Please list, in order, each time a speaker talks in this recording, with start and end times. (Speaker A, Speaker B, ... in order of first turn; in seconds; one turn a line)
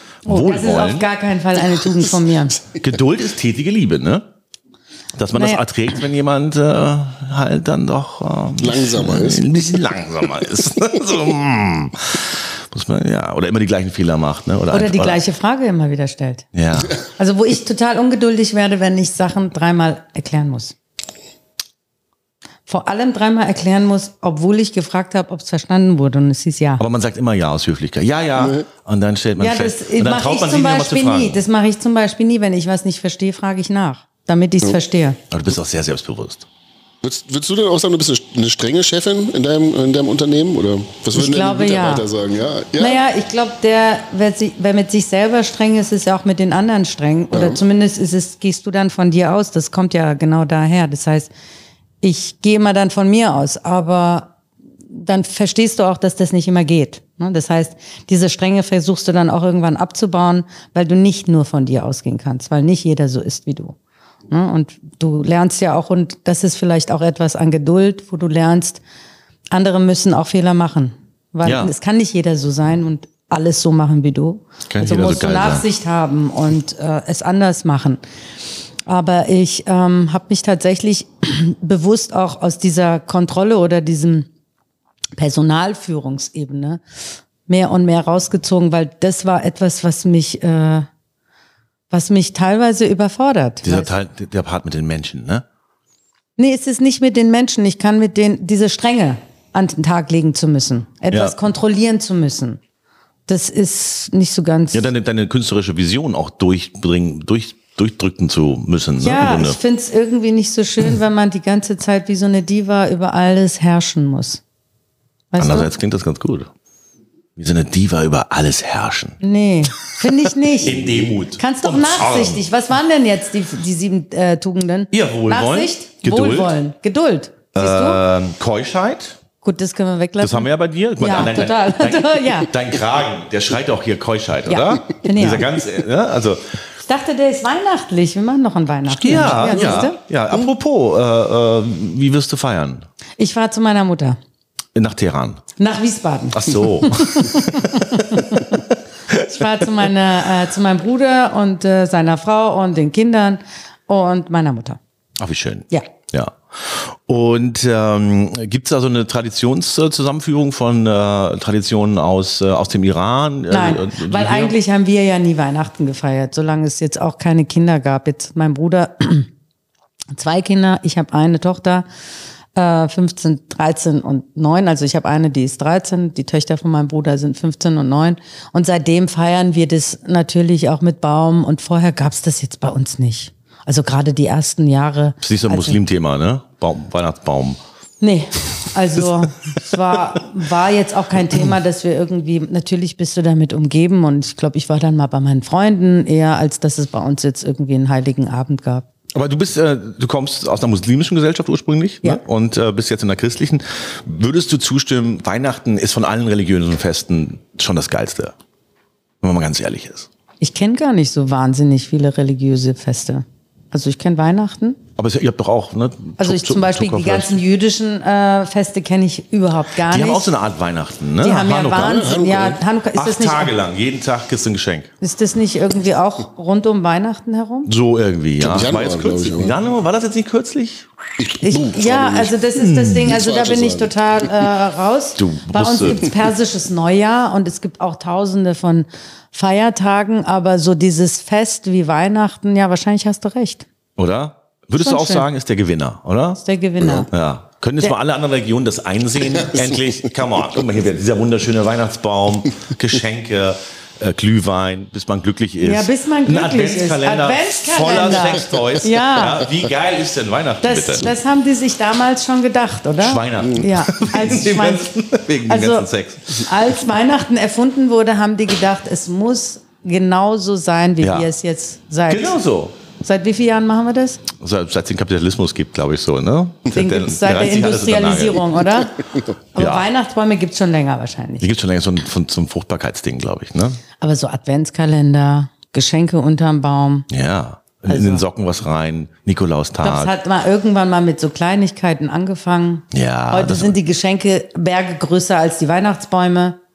Speaker A: 0.2-1.1
Speaker B: 0.2-2.6
Speaker A: 2.7-4.2
Speaker A: 5.2-15.2
Speaker B: 5.3-5.6
Speaker C: 8.6-9.7
Speaker B: 14.7-16.5
Speaker A: 16.5-17.0
Speaker B: 17.0-20.7
Speaker B: 22.7-26.8
Speaker A: 26.8-31.4
Speaker C: 28.4-28.7
Speaker B: 29.4-35.2
Speaker A: 35.3-36.4
Speaker C: 37.0-43.0
Speaker B: 41.1-42.0
Speaker B: 42.8-51.3
Speaker C: 47.3-47.6
Speaker B: 52.0-54.3
Speaker B: 54.9-63.8
Speaker B: 64.3-68.8
Speaker B: 69.5-78.0
Speaker A: 71.4-71.7
Speaker A: 74.7-75.6
Speaker B: 78.9-84.3
Speaker B: 85.2-86.8
Speaker B: 87.5-90.9
Speaker B: 91.9-93.9
Speaker A: 93.6-95.4
Speaker B: 96.4-102.6
Speaker B: 103.3-104.9
Speaker A: 104.7-109.6
Speaker B: 109.0-114.4
Speaker B: 115.3-115.7
Speaker A: 115.4-116.5
Speaker A: 117.4-119.2
Speaker B: 119.2-128.0
Speaker A: 120.5-122.4
Speaker A: 124.9-126.5
Speaker A: 127.5-129.2
Speaker B: 129.4-132.5
Speaker A: 130.2-136.4
Speaker B: 134.5-135.5
Speaker B: 136.8-140.0
Speaker A: 138.9-142.8
Speaker C: 139.6-139.8
Speaker B: 143.2-144.2
Speaker A: 144.7-145.4
Speaker B: 145.6-148.6
Speaker A: 146.3-149.7
Speaker B: 149.3-154.8
Speaker A: 155.2-164.5
Speaker B: 163.5-169.3
Speaker B: 170.1-171.8
Speaker B: 172.6-185.8
Speaker A: 185.2-187.6
Speaker B: 188.0-198.9
Speaker A: 199.1-208.3
Speaker A: 209.2-210.1
Speaker B: 210.4-214.8
Speaker A: 215.0-217.4
Speaker B: 216.2-220.3
Speaker A: 219.8-222.1
Speaker B: 221.2-223.5
Speaker C: 221.8-222.6
Speaker A: 222.9-224.9
Speaker B: 225.0-227.7
Speaker A: 227.7-230.8
Speaker C: 228.4-229.6
Speaker C: 231.2-232.3
Speaker B: 231.4-243.7
Speaker A: 232.6-233.1
Speaker C: 233.0-234.2
Speaker A: 235.2-236.1
Speaker A: 244.0-246.4
Speaker B: 244.8-245.2
Speaker B: 246.4-247.1
Speaker A: 247.1-261.1
Speaker C: 249.4-249.7
Speaker B: 255.6-259.5
Speaker B: 260.6-264.9
Speaker A: 263.0-266.5
Speaker B: 265.5-272.4
Speaker A: 271.0-271.3
Speaker A: 272.1-272.7
Speaker B: 273.0-274.2
Speaker A: 274.4-278.5
Speaker B: 276.7-281.5
Speaker A: 279.6-279.9
Speaker A: 281.4-283.8
Speaker B: 284.0-287.1
Speaker A: 287.1-290.1
Speaker B: 287.9-288.2
Speaker B: 289.8-296.6
Speaker A: 292.9-293.8